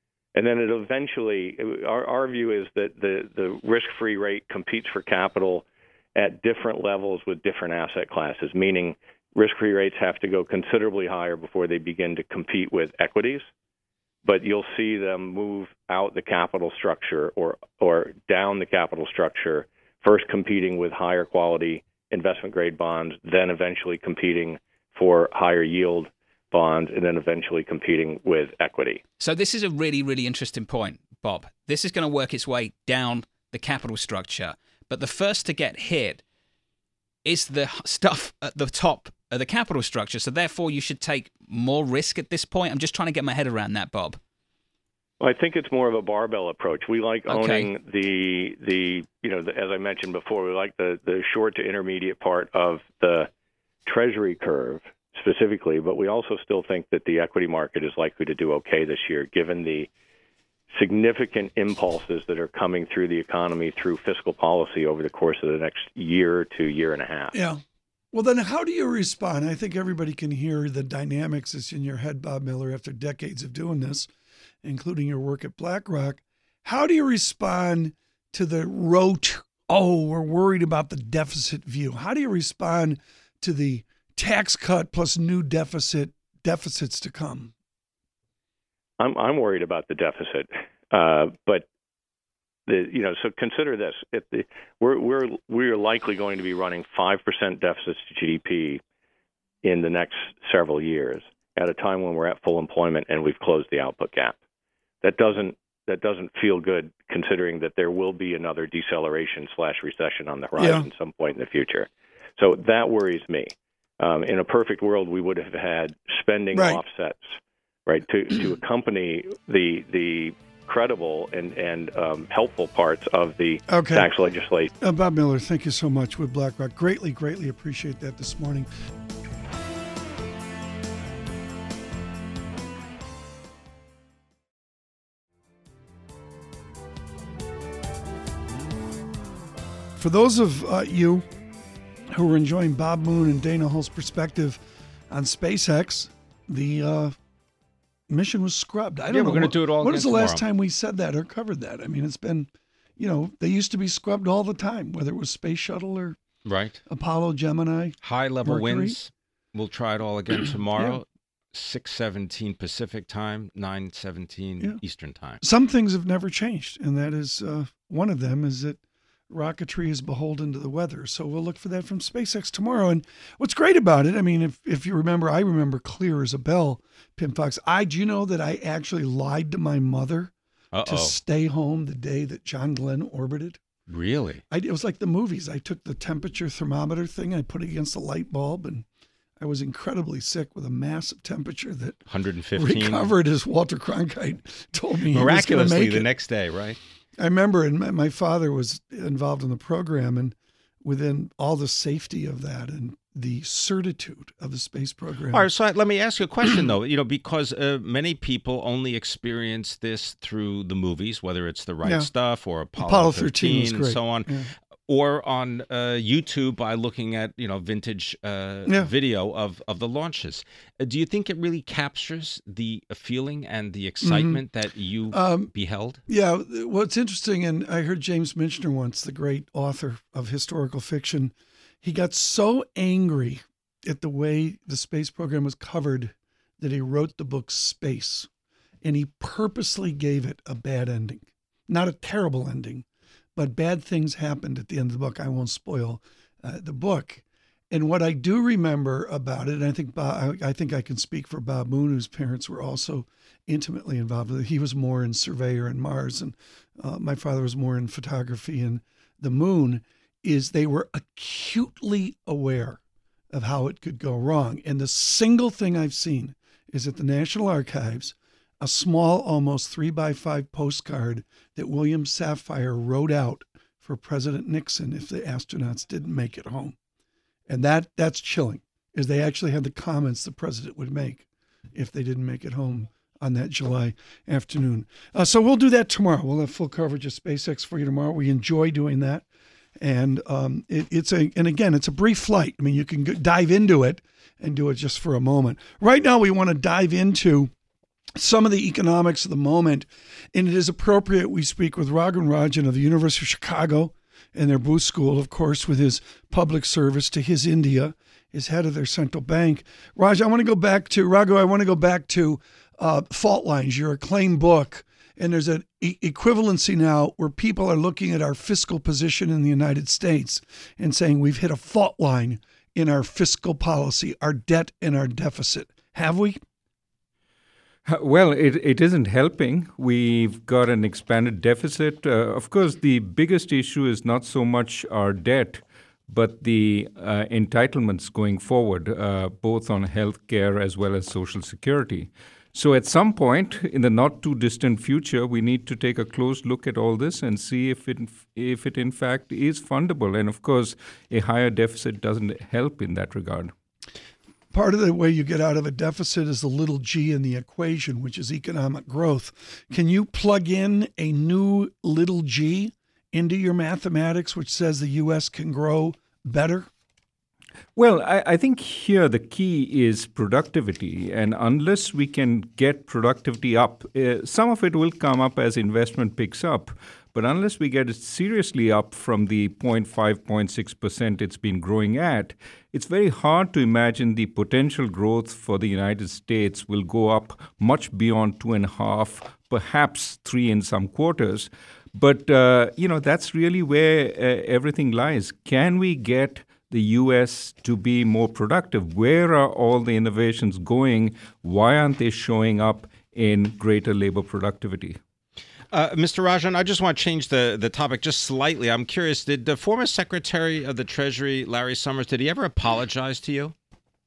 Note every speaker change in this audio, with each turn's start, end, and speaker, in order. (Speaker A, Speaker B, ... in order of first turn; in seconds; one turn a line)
Speaker A: 0.3-13.4
Speaker A: 14.2-29.0
Speaker B: 29.2-36.2
Speaker B: 37.2-44.2
Speaker A: 45.2-53.3
Speaker B: 47.3-47.7
Speaker A: 53.9-59.9
Speaker A: 60.7-67.3
Speaker C: 67.3-74.1
Speaker C: 74.6-87.5
Speaker A: 89.0-91.7
Speaker A: 92.7-98.8
Speaker A: 99.6-104.3
Speaker A: 105.0-117.3
Speaker C: 110.6-110.9
Speaker C: 116.5-116.8
Speaker A: 117.8-124.7
Speaker C: 123.7-124.1
Speaker C: 124.8-128.7
Speaker C: 140.0-141.2
Speaker C: 142.1-147.2
Speaker C: 148.1-156.2
Speaker D: 149.1-150.5
Speaker D: 156.4-156.8
Speaker C: 156.8-159.0
Speaker D: 158.0-165.4
Speaker C: 165.4-180.3
Speaker D: 180.7-181.2
Speaker C: 180.8-183.6
Speaker D: 183.9-184.4
Speaker C: 184.5-188.8
Speaker C: 189.4-192.0
Speaker D: 192.1-193.1
Speaker C: 192.5-196.1
Speaker D: 195.1-196.8
Speaker C: 197.2-205.5
Speaker D: 205.3-226.0
Speaker C: 212.8-214.5
Speaker C: 224.0-224.4
Speaker C: 225.1-225.5
Speaker C: 226.1-238.3
Speaker C: 238.8-242.8
Speaker C: 243.3-262.8
Speaker C: 263.3-276.8
Speaker C: 277.5-289.2
Speaker C: 289.8-297.5
Speaker C: 298.2-326.4
Speaker E: 327.9-353.5
Speaker C: 354.5-366.7
Speaker E: 367.8-405.0
Speaker D: 405.7-413.5